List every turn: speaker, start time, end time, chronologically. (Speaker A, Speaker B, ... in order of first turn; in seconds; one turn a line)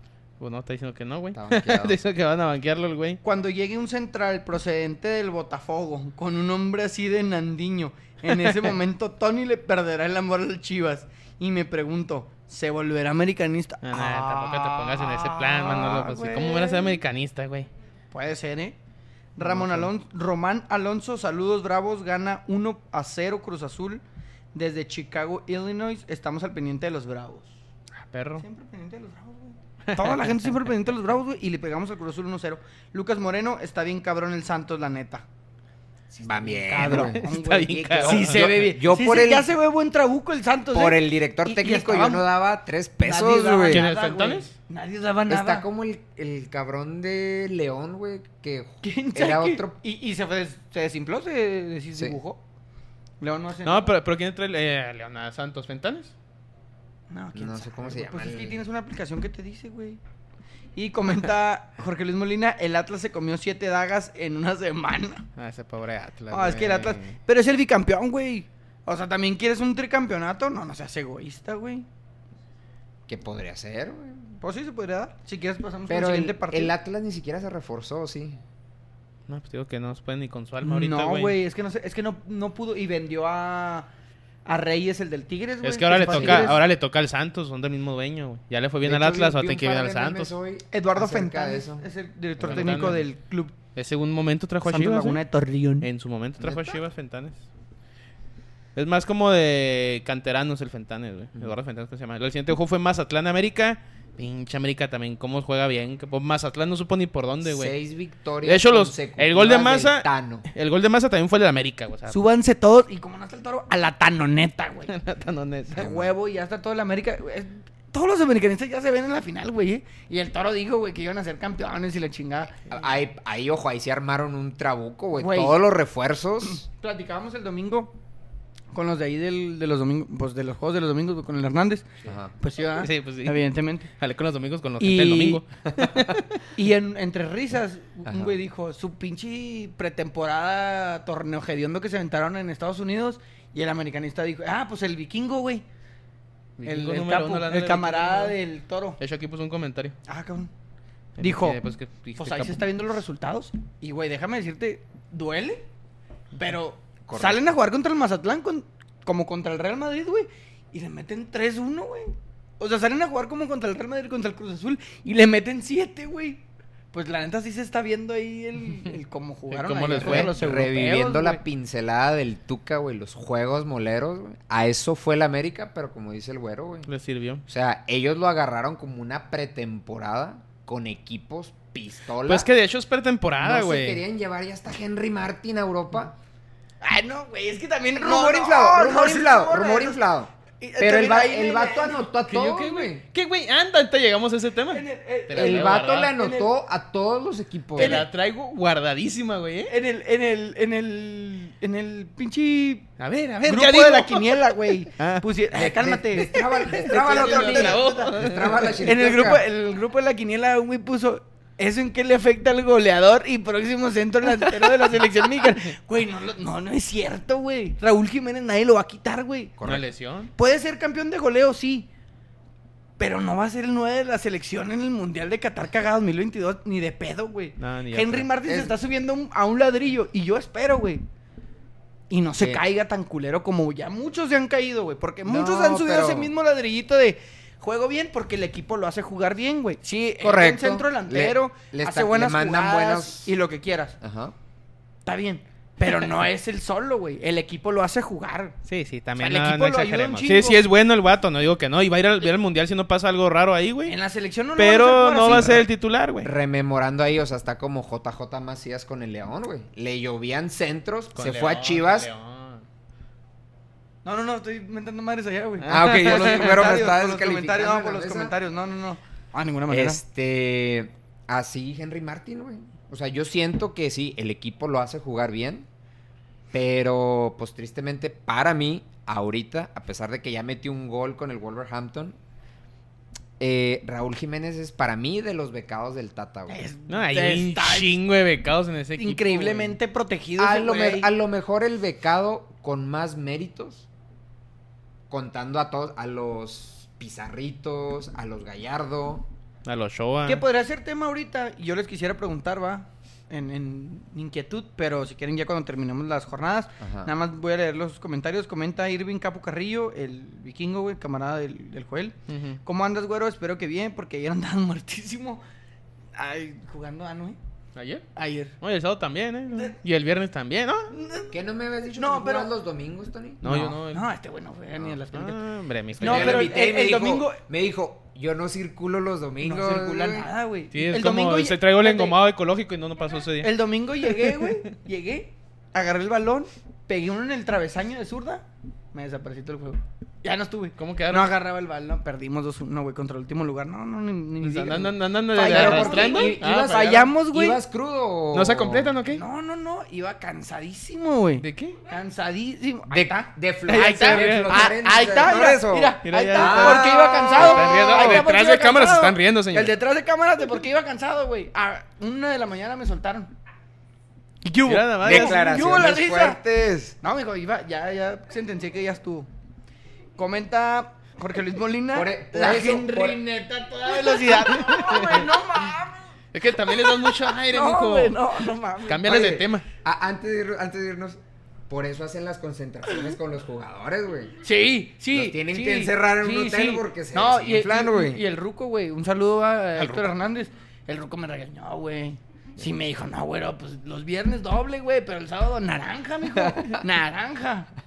Speaker A: 0.4-3.2
Speaker B: 1.3-2.0
Speaker C: 3.2-17.0
Speaker A: 13.8-17.7
Speaker C: 18.1-18.8
Speaker C: 19.4-24.0
Speaker B: 19.4-19.8
Speaker C: 24.5-27.5
Speaker A: 28.0-28.4
Speaker C: 28.4-35.2
Speaker A: 29.9-30.4
Speaker C: 36.1-42.2
Speaker B: 36.2-39.5
Speaker A: 36.8-38.7
Speaker B: 40.7-43.9
Speaker C: 43.0-45.6
Speaker A: 43.7-44.5
Speaker B: 45.3-49.8
Speaker C: 48.8-52.4
Speaker C: 53.2-53.9
Speaker A: 53.6-56.1
Speaker C: 57.1-60.0
Speaker B: 57.3-58.6
Speaker C: 60.8-65.3
Speaker A: 65.4-67.1
Speaker C: 66.3-71.9
Speaker B: 73.1-74.3
Speaker C: 74.4-76.7
Speaker B: 75.9-78.4
Speaker A: 79.3-81.4
Speaker C: 80.6-83.9
Speaker C: 84.5-86.6
Speaker A: 85.6-90.3
Speaker B: 86.1-86.6
Speaker B: 88.8-91.8
Speaker C: 90.7-93.5
Speaker B: 92.4-93.0
Speaker A: 92.4-93.0
Speaker A: 93.7-95.2
Speaker C: 94.6-95.9
Speaker A: 95.8-97.4
Speaker B: 96.4-96.8
Speaker A: 98.7-107.7
Speaker B: 107.4-110.5
Speaker A: 108.4-112.2
Speaker C: 112.1-114.9
Speaker A: 114.9-115.9
Speaker C: 115.7-122.5
Speaker B: 115.8-116.1
Speaker B: 122.7-126.6
Speaker C: 125.2-125.6
Speaker C: 126.4-128.0
Speaker C: 128.7-133.9
Speaker B: 132.0-132.3
Speaker A: 132.7-136.4
Speaker C: 134.8-135.4
Speaker C: 136.5-145.6
Speaker B: 138.1-138.3
Speaker A: 146.6-148.4
Speaker C: 146.6-149.0
Speaker A: 149.0-150.0
Speaker C: 150.1-150.5
Speaker A: 151.2-152.6
Speaker C: 151.2-151.6
Speaker C: 152.2-155.7
Speaker C: 156.4-171.4
Speaker B: 157.1-157.4
Speaker A: 169.5-171.3
Speaker B: 170.0-176.9
Speaker A: 176.9-177.4
Speaker B: 177.5-182.5
Speaker A: 182.2-184.0
Speaker B: 183.4-186.1
Speaker C: 186.8-190.0
Speaker B: 188.0-193.0
Speaker C: 190.6-192.1
Speaker A: 192.3-196.1
Speaker C: 194.7-196.5
Speaker B: 195.3-198.1
Speaker C: 197.8-198.1
Speaker A: 197.8-199.7
Speaker C: 199.7-202.9
Speaker A: 203.0-205.3
Speaker C: 203.4-219.5
Speaker B: 205.5-209.4
Speaker A: 206.9-208.8
Speaker B: 219.6-219.9
Speaker A: 219.6-220.3
Speaker C: 220.3-221.9
Speaker C: 223.0-231.0
Speaker A: 227.6-228.3
Speaker B: 228.5-228.8
Speaker C: 232.1-244.0
Speaker B: 235.2-236.3
Speaker B: 240.2-243.3
Speaker B: 244.0-244.3
Speaker C: 245.1-248.5
Speaker A: 248.7-253.9
Speaker C: 249.2-250.6
Speaker C: 253.8-255.6
Speaker A: 254.6-256.3
Speaker B: 255.3-255.6
Speaker B: 256.2-262.1
Speaker A: 261.1-262.6
Speaker C: 264.0-270.0
Speaker A: 265.6-266.6
Speaker B: 265.7-268.3
Speaker B: 269.7-275.7
Speaker B: 276.5-282.2
Speaker B: 283.4-286.6
Speaker C: 286.5-287.9
Speaker A: 286.9-289.8
Speaker C: 289.0-291.1
Speaker B: 290.4-293.9
Speaker B: 295.1-299.3
Speaker A: 299.6-300.4
Speaker C: 300.2-315.4
Speaker B: 306.8-307.1
Speaker A: 312.3-312.6
Speaker C: 316.1-317.4
Speaker A: 317.7-318.1
Speaker C: 318.1-318.6
Speaker A: 318.6-320.9
Speaker C: 320.9-321.3
Speaker B: 321.3-323.4
Speaker C: 321.9-322.5
Speaker A: 323.4-324.1
Speaker C: 323.4-325.4
Speaker A: 325.1-326.5
Speaker B: 326.0-330.3
Speaker C: 326.0-327.4
Speaker C: 329.4-332.2
Speaker A: 330.7-334.6
Speaker C: 333.4-347.6
Speaker A: 340.8-341.3
Speaker A: 344.4-346.8
Speaker B: 345.4-348.9
Speaker A: 348.3-349.2
Speaker C: 349.1-363.3
Speaker A: 351.4-351.8
Speaker B: 352.9-358.2
Speaker A: 353.7-354.8
Speaker A: 356.0-359.8
Speaker C: 364.4-366.4
Speaker A: 364.6-365.4
Speaker B: 365.0-367.0
Speaker C: 367.0-369.3
Speaker C: 370.2-373.2
Speaker B: 371.9-375.1
Speaker C: 373.8-376.1
Speaker A: 374.6-375.2
Speaker A: 376.3-378.2
Speaker C: 376.6-379.5
Speaker A: 378.9-379.6
Speaker B: 379.8-381.2
Speaker B: 381.7-384.3
Speaker C: 384.4-397.7
Speaker B: 385.1-388.2
Speaker A: 389.8-390.1